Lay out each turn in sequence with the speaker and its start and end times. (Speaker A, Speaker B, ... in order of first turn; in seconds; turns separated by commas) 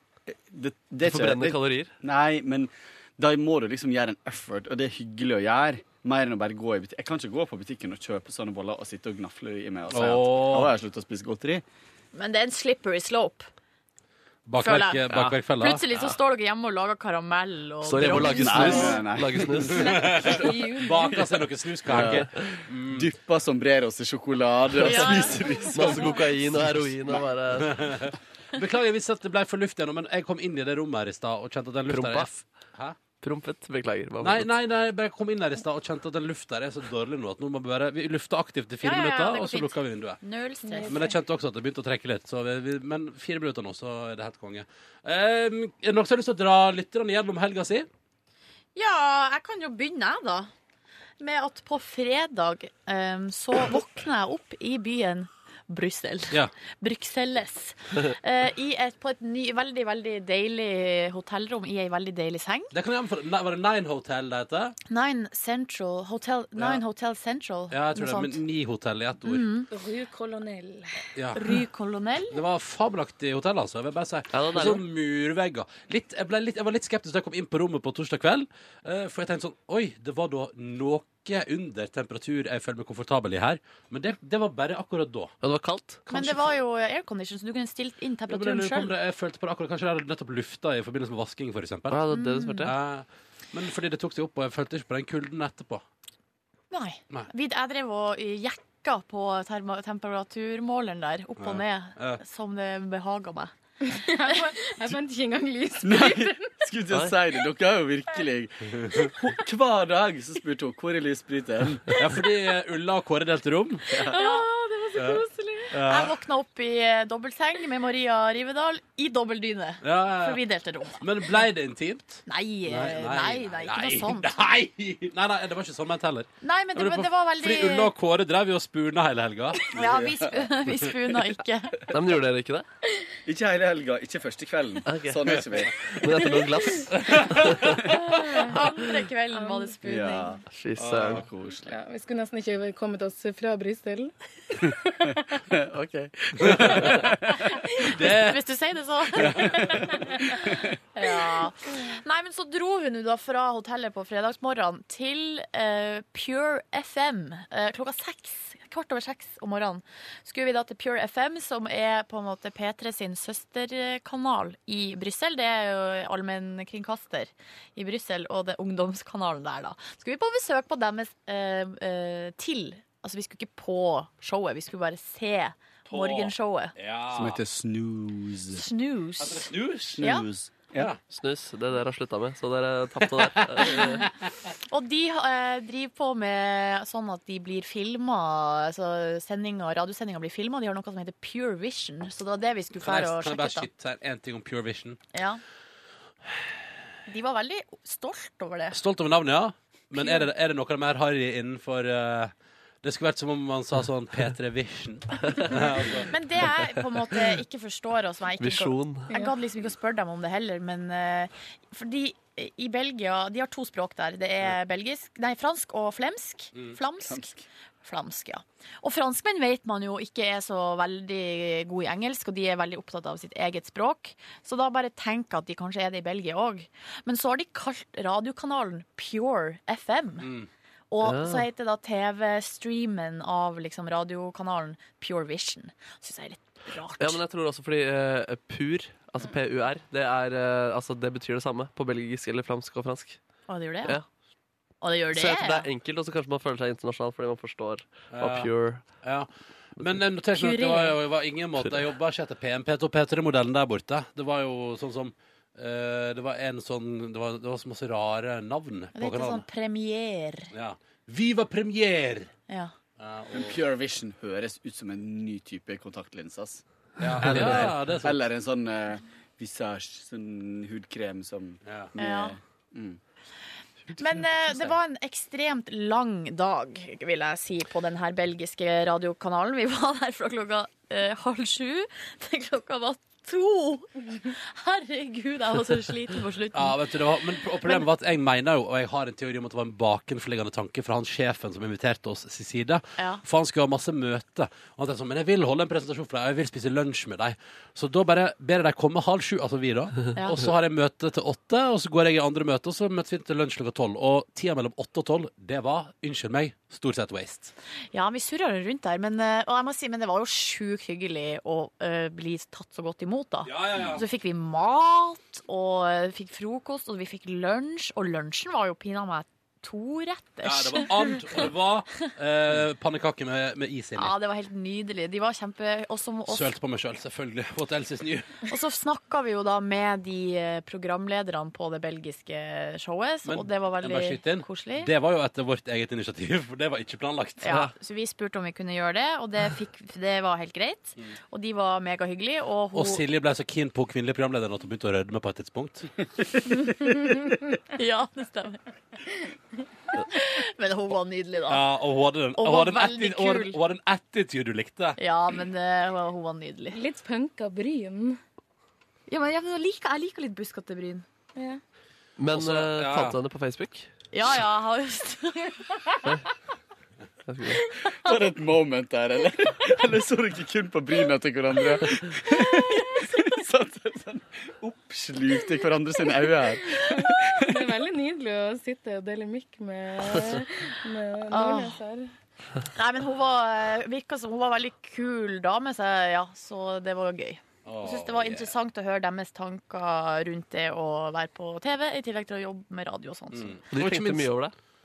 Speaker A: 0.3-11.6, Speaker B: 1.0-1.9, Speaker C: 9.9-10.7, Speaker D: 12.1-13.5, Speaker C: 14.4-15.8, Speaker D: 14.6-19.0, Speaker B: 17.8-20.1, Speaker A: 18.1-20.5, Speaker C: 19.7-23.1, Speaker E: 20.2-21.2, Speaker A: 21.1-22.2, Speaker B: 21.9-22.5, Speaker A: 22.9-27.2, Speaker D: 24.8-25.4, Speaker E: 25.1-26.2, Speaker B: 25.7-27.8, Speaker C: 27.6-33.0, Speaker B: 31.9-32.4, Speaker B: 33.2-34.5, Speaker C: 34.2-40.2, Speaker D: 38.8-41.1, Speaker E: 40.6-41.1, Speaker C: 40.9-47.9, Speaker D: 48.8-50.5, Speaker D: 51.2-62.7, Speaker C: 62.7-64.8, Speaker D: 64.9-68.4, Speaker C: 66.6-66.8, Speaker C: 67.7-69.5, Speaker D: 69.2-69.7, Speaker E: 69.7-71.1, Speaker C: 71.1-71.4, Speaker D: 71.3-72.3, Speaker C: 72.3-85.3, Speaker B: 74.3-74.8, Speaker B: 85.4-86.0, Speaker D: 86.1-88.9, Speaker C: 88.3-92.0, Speaker B: 91.9-92.7, Speaker D: 92.1-92.7, Speaker C: 92.6-95.8, Speaker D: 96.7-103.5, Speaker C: 101.4-102.2, Speaker E: 103.9-106.7, Speaker D: 104.3-104.5, Speaker A: 105.8-112.0, Speaker C: 112.0-113.8, Speaker A: 113.9-114.2, Speaker E: 114.1-115.8, Speaker D: 114.1-114.5, Speaker C: 114.9-116.1, Speaker D: 115.8-121.0, Speaker C: 119.8-120.4, Speaker C: 121.0-129.6, Speaker D: 122.3-124.3, Speaker D: 126.4-127.9, Speaker D: 129.6-131.8, Speaker A: 129.7-130.5, Speaker B: 131.9-132.7, Speaker A: 133.2-135.7, Speaker B: 134.8-137.8, Speaker E: 136.2-136.9, Speaker C: 136.9-138.0, Speaker E: 138.0-138.6, Speaker D: 138.3-140.4, Speaker E: 139.3-139.8, Speaker A: 139.8-141.8, Speaker B: 140.5-141.2, Speaker C: 140.8-141.2, Speaker E: 141.7-144.1, Speaker E: 144.7-145.1, Speaker A: 145.5-147.5, Speaker C: 146.4-147.0, Speaker E: 147.4-147.8, Speaker D: 147.8-176.7, Speaker C: 147.9-148.4, Speaker C: 149.2-150.0, Speaker C: 175.9-177.4, Speaker A: 177.1-178.7, Speaker D: 178.5-180.3, Speaker C: 179.2-180.0, Speaker A: 180.0-180.9, Speaker B: 181.1-183.9, Speaker C: 183.0-184.1, Speaker D: 183.6-184.1, Speaker D: 184.7-193.7, Speaker C: 192.8-195.0, Speaker D: 195.1-195.4, Speaker D: 197.1-198.8, Speaker C: 198.7-206.1, Speaker D: 200.0-200.2, Speaker D: 206.1-230.3, Speaker B: 208.4-209.1, Speaker E: 209.1-209.3, Speaker A: 217.1-217.4, Speaker C: 230.2-230.5, Speaker D: 230.9-237.2, Speaker B: 231.0-231.4, Speaker B: 237.0-243.2, Speaker D: 243.5-244.0, Speaker D: 244.8-245.7, Speaker B: 245.1-248.8, Speaker C: 248.1-259.4, Speaker D: 250.3-251.0, Speaker D: 258.9-260.5, Speaker C: 260.5-262.3, Speaker C: 263.0-263.6, Speaker A: 263.3-273.0, Speaker C: 267.0-268.2, Speaker C: 271.6-271.9, Speaker D: 272.0-272.3, Speaker D: 273.9-286.8, Speaker C: 286.5-307.5, Speaker D: 300.1-300.5, Speaker D: 307.9-321.5, Speaker C: 313.4-314.0, Speaker C: 320.4-324.1, Speaker D: 323.9-326.6, Speaker C: 326.3-328.4, Speaker D: 328.5-334.9, Speaker C: 333.2-337.5, Speaker D: 337.4-343.0, Speaker C: 342.7-345.9, Speaker D: 346.5-346.7, Speaker D: 347.7-348.6, Speaker D: 350.1-351.6, Speaker C: 351.5-355.0, Speaker D: 352.4-353.6, Speaker D: 355.0-356.8, Speaker E: 356.7-358.2, Speaker D: 359.1-361.1, Speaker B: 362.2-363.9, Speaker C: 362.3-363.2, Speaker D: 364.1-365.8, Speaker B: 367.3-367.7, Speaker A: 367.9-377.8, Speaker E: 376.6-382.1, Speaker D: 381.3-381.8, Speaker D: 382.7-393.6, Speaker C: 387.6-388.5, Speaker C: 393.3-394.3, Speaker B: 393.7-394.5